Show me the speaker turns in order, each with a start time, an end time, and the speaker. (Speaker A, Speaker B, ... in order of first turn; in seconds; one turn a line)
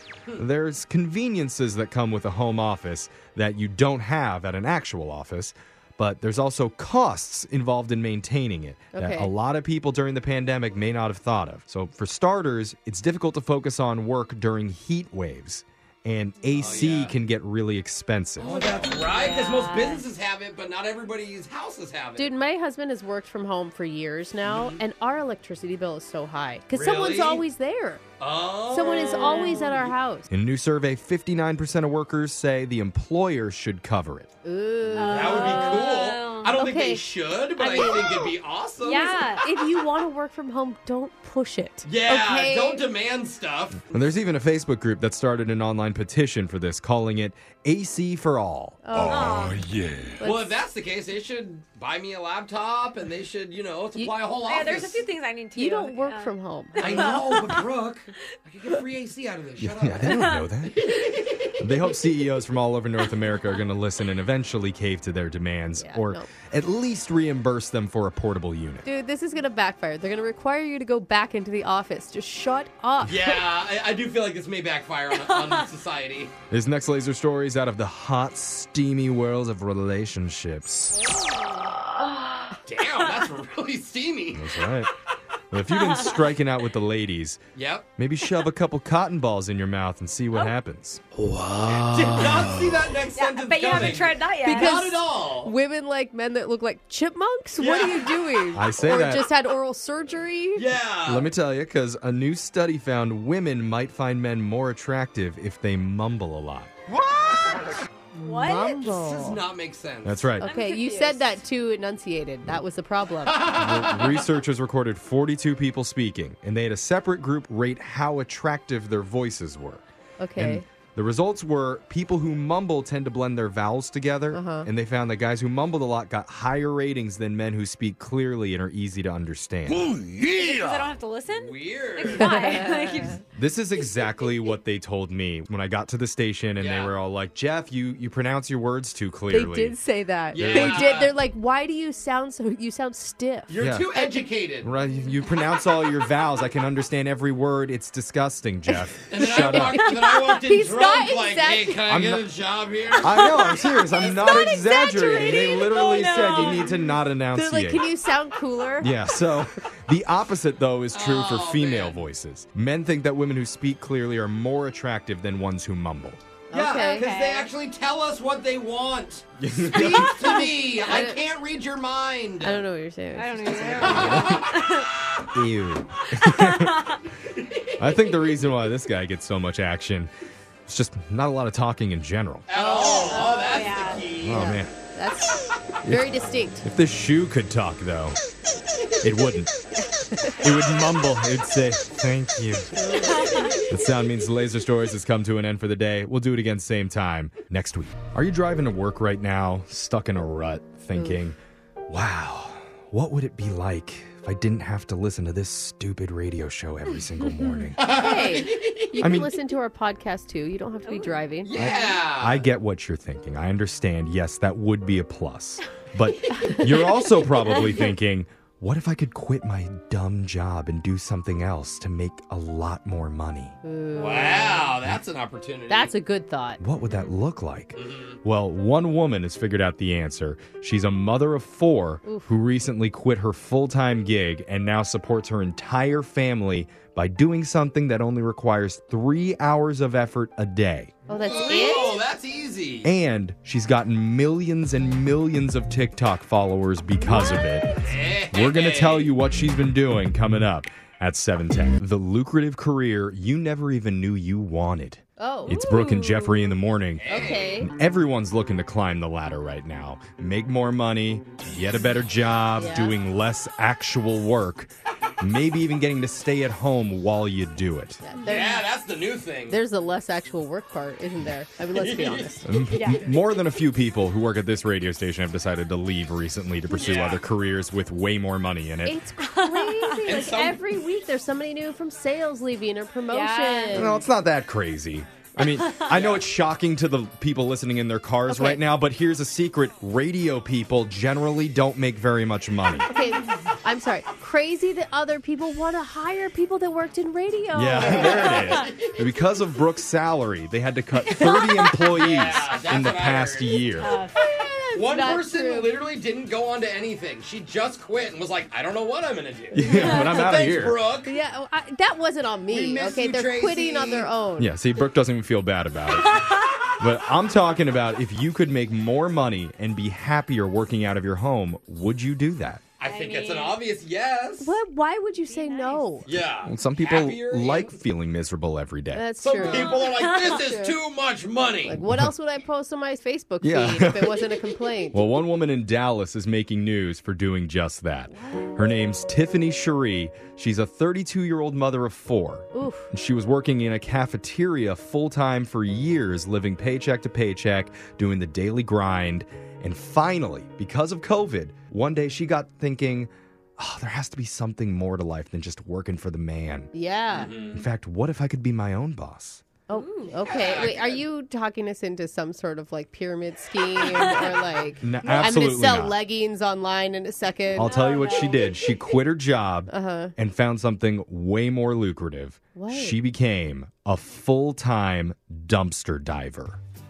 Speaker A: 0.4-18.5
Speaker B: 8.9-9.3
Speaker C: 16.5-17.1
Speaker C: 18.4-22.3
Speaker B: 18.5-18.9
Speaker D: 19.1-20.0
Speaker B: 22.2-28.0
Speaker C: 24.4-24.8
Speaker C: 26.7-27.4
Speaker C: 28.2-29.9
Speaker B: 28.7-30.3
Speaker D: 29.2-29.8
Speaker A: 30.3-34.3
Speaker B: 34.4-35.7
Speaker D: 34.9-36.6
Speaker C: 35.1-39.2
Speaker B: 36.5-37.0
Speaker B: 37.6-42.8
Speaker D: 38.8-39.4
Speaker C: 41.9-43.8
Speaker A: 43.9-48.9
Speaker B: 48.8-49.6
Speaker D: 49.0-49.6
Speaker B: 50.2-50.6
Speaker C: 50.2-55.0
Speaker D: 54.4-57.6
Speaker B: 55.5-57.2
Speaker C: 56.8-60.2
Speaker A: 59.6-60.7
Speaker D: 60.1-60.5
Speaker A: 61.6-68.8
Speaker B: 65.8-66.3
Speaker B: 68.8-73.4
Speaker C: 73.0-76.3
Speaker A: 76.5-81.0
Speaker D: 81.1-81.7
Speaker C: 82.7-84.5
Speaker A: 84.3-84.9
Speaker A: 85.5-87.4
Speaker D: 85.7-86.2
Speaker C: 87.5-87.8
Speaker A: 88.0-91.0
Speaker C: 91.6-95.5
Speaker D: 93.1-94.8
Speaker B: 94.4-100.8
Speaker C: 97.6-98.1
Speaker A: 98.5-99.2
Speaker C: 100.5-101.3
Speaker A: 101.0-106.7
Speaker D: 108.2-108.8
Speaker B: 108.2-109.4
Speaker C: 108.8-110.3
Speaker A: 110.0-110.5
Speaker B: 110.4-113.4
Speaker D: 110.4-111.2
Speaker C: 113.2-114.2
Speaker A: 113.5-119.8
Speaker B: 120.2-120.6
Speaker A: 120.3-129.9
Speaker B: 124.3-124.7
Speaker D: 130.2-133.2
Speaker C: 131.3-132.3
Speaker B: 132.1-133.2
Speaker A: 133.3-139.8
Speaker C: 136.6-136.9
Speaker B: 139.3-144.1
Speaker A: 140.3-141.0
Speaker C: 140.3-141.1
Speaker C: 143.5-144.7
Speaker A: 143.6-143.9
Speaker A: 144.6-149.8
Speaker C: 149.1-153.2
Speaker B: 149.2-151.8
Speaker A: 151.9-152.2
Speaker A: 153.0-157.8
Speaker D: 153.2-156.8
Speaker B: 157.3-159.0
Speaker A: 158.8-166.2
Speaker C: 160.9-162.0
Speaker B: 166.5-167.1
Speaker C: 166.5-172.6
Speaker D: 166.7-167.5
Speaker A: 169.4-170.1
Speaker B: 170.2-171.2
Speaker B: 172.4-174.1
Speaker D: 173.2-174.9
Speaker C: 173.6-174.5
Speaker A: 173.8-174.4
Speaker A: 175.3-176.9
Speaker D: 176.2-176.9
Speaker A: 177.8-180.1
Speaker A: 180.7-182.5
Speaker C: 182.5-184.5
Speaker B: 182.5-183.7
Speaker D: 182.9-184.0
Speaker A: 184.2-184.7
Speaker B: 184.2-186.6
Speaker A: 185.8-188.2
Speaker A: 189.0-189.5
Speaker B: 189.8-190.6
Speaker A: 190.4-192.7
Speaker B: 192.7-193.6
Speaker D: 193.1-193.6
Speaker A: 193.7-201.4
Speaker B: 200.9-201.2
Speaker A: 201.9-207.9
Speaker B: 207.7-211.5
Speaker C: 207.8-208.9
Speaker A: 209.0-209.3
Speaker D: 210.8-211.1
Speaker C: 211.4-212.4
Speaker A: 211.5-223.6
Speaker B: 223.6-224.8
Speaker C: 223.9-225.9
Speaker B: 225.7-226.6
Speaker A: 226.6-240.9
Speaker C: 227.7-228.2
Speaker B: 232.0-232.3
Speaker B: 241.1-242.0
Speaker C: 241.1-242.9
Speaker A: 242.8-247.7
Speaker B: 247.1-247.4
Speaker C: 247.8-249.1
Speaker A: 248.3-268.0
Speaker B: 255.2-256.1
Speaker C: 257.0-257.6
Speaker B: 257.1-257.7
Speaker B: 262.5-263.0
Speaker B: 268.0-268.6
Speaker C: 268.2-269.6
Speaker B: 269.5-272.6
Speaker C: 271.7-272.3
Speaker A: 272.4-279.0
Speaker D: 272.7-273.0
Speaker C: 276.8-277.2
Speaker B: 278.8-284.0
Speaker D: 279.2-280.0
Speaker C: 280.0-280.6
Speaker D: 283.1-284.0
Speaker A: 283.7-292.9
Speaker C: 285.9-286.2
Speaker B: 288.3-288.6
Speaker B: 292.9-298.5
Speaker A: 297.5-303.9
Speaker C: 297.8-298.9
Speaker B: 301.2-301.6
Speaker C: 301.9-303.6
Speaker D: 303.8-304.1
Speaker B: 304.1-305.7
Speaker C: 304.7-311.1
Speaker A: 309.5-310.8
Speaker D: 309.6-310.2
Speaker B: 311.0-314.5
Speaker C: 312.5-314.1
Speaker A: 314.4-316.2
Speaker D: 316.1-316.4
Speaker A: 316.8-322.6
Speaker C: 322.8-324.6
Speaker D: 322.8-323.6
Speaker B: 324.4-326.0
Speaker D: 325.3-325.9
Speaker C: 326.1-327.8
Speaker A: 326.4-329.1
Speaker B: 328.9-330.8
Speaker C: 329.2-331.8
Speaker D: 329.4-330.3
Speaker B: 331.6-335.0
Speaker A: 333.4-334.2
Speaker A: 334.9-356.7
Speaker B: 338.1-338.5
Speaker B: 342.5-342.9
Speaker B: 356.7-357.3
Speaker C: 357.1-357.6
Speaker A: 357.5-359.4
Speaker B: 359.7-367.8
Speaker D: 359.7-360.2
Speaker C: 360.3-361.0
Speaker D: 363.8-364.2
Speaker A: 364.8-366.0
Speaker A: 367.5-376.6
Speaker D: 367.6-368.8
Speaker B: 369.7-370.1
Speaker B: 372.5-373.0